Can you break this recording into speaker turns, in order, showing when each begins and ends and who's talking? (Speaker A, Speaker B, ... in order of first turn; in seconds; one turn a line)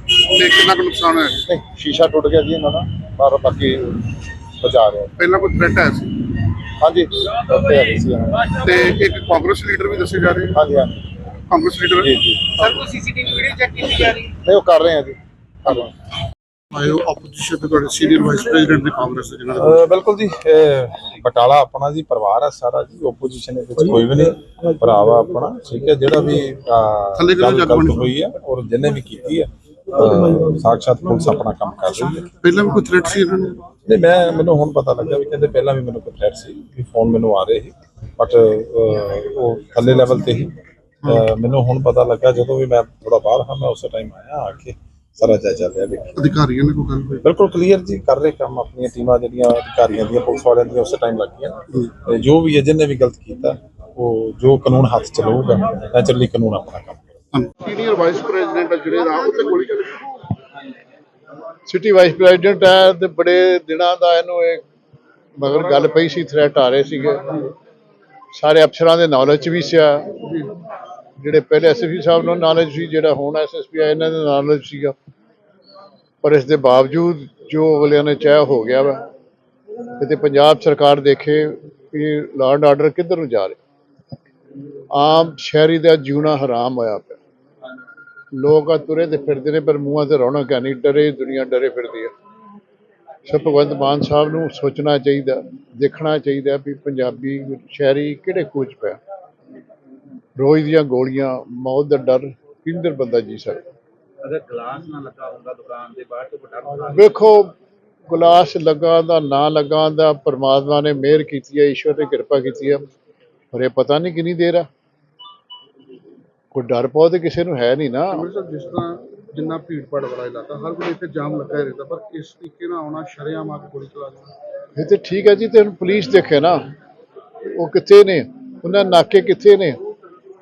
Speaker A: 0.1-1.4
Speaker B: 1.4-5.1
Speaker A: 5.2-6.3
Speaker B: 6.8-8.5
Speaker A: 8.5-10.6
Speaker B: 10.5-11.1
Speaker A: 11.5-14.2
Speaker B: 12.0-12.6
Speaker B: 14.2-15.9
Speaker A: 16.7-19.9
Speaker C: 19.5-32.3
Speaker A: 27.1-28.1
Speaker A: 32.4-33.6
Speaker C: 33.8-46.1
Speaker A: 46.1-47.2
Speaker C: 47.2-57.0
Speaker A: 57.3-60.2
Speaker D: 61.6-64.6
Speaker D: 65.4-67.5
Speaker D: 68.3-70.1
Speaker D: 71.2-74.9
Speaker D: 76.2-79.0
Speaker D: 80.0-83.6
Speaker D: 84.9-87.2
Speaker D: 88.3-92.1
Speaker D: 93.2-99.0
Speaker D: 100.3-103.6
Speaker E: 104.2-107.0
Speaker D: 106.8-107.5
Speaker D: 108.1-112.8
Speaker D: 113.5-114.7
Speaker D: 116.5-118.2
Speaker A: 118.1-124.3
Speaker D: 124.8-126.6
Speaker D: 127.5-129.8